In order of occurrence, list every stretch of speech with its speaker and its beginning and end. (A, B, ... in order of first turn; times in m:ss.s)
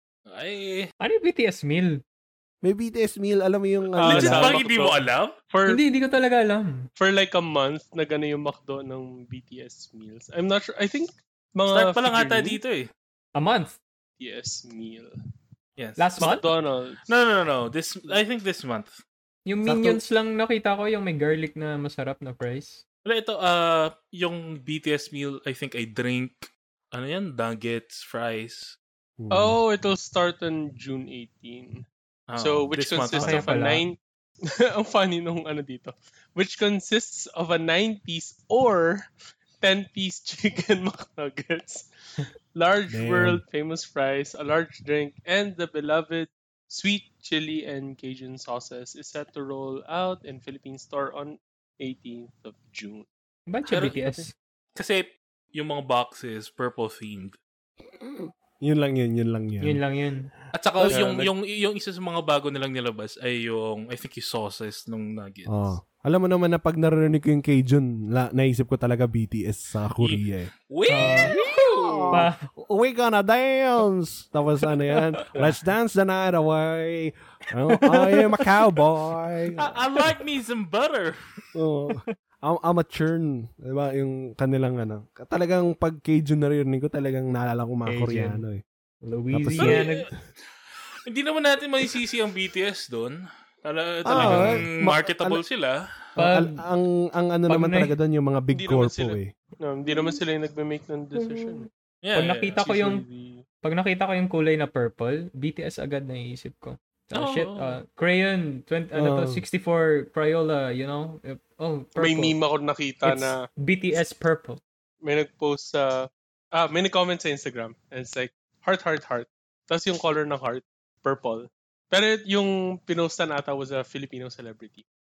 0:00.3-0:00.9 A
0:01.0-0:02.0 B
0:02.6-0:04.5 C
0:04.0-0:05.8 D
0:04.0-0:05.4 A
0:05.7-0:06.9 B
0:07.0-0:12.6 D
0:11.7-0:12.9 A
0:13.3-0:13.8 B
0:14.2-0:15.1 D
0:15.8-0:16.2 A
0:16.0-0:16.5 B
0:16.2-0:17.0 D
0:17.1-0:19.0 A
0:19.4-0:22.8 B
0:19.6-0:20.0 C
0:23.0-0:28.8 A
0:29.2-0:29.6 C
0:29.3-0:34.0 D
0:32.3-0:33.5 A
0:33.1-0:33.9 B
0:34.8-0:39.0 D
0:39.6-0:41.8 D
0:42.6-0:53.1 D
0:42.9-0:43.4 C
0:53.5-0:54.3 B
0:53.7-0:53.9 A
0:54.8-0:57.4 A
0:58.0-0:59.8 C
0:59.6-1:00.3 B
1:00.5-1:05.7 A
1:00.9-1:01.3 D
1:05.5-1:10.5 C
1:10.0-1:12.2 A
1:10.9-1:11.3 B
1:11.2-1:19.7 C
1:12.1-1:12.4 B
1:17.8-1:18.1 B
1:19.6-1:21.2 A
1:21.5-1:28.6 C
1:27.8-1:28.4 B
1:29.0-1:30.1 B
1:29.3-1:29.9 C
1:29.6-1:30.0 A
1:31.1-1:35.8 A
1:34.0-1:35.4 C
1:34.1-1:34.6 B
1:36.2-1:39.3 C
1:36.2-1:36.6 B
1:37.5-1:38.0 B
1:38.5-1:41.7 D
1:41.1-1:43.0 B
1:42.0-1:42.6 A
1:42.6-1:43.3 D
1:43.6-1:52.4 B
1:47.1-1:47.8 A
1:48.9-1:49.4 C
1:52.0-1:53.4 D
1:53.0-1:54.6 B
1:55.0-2:04.8 D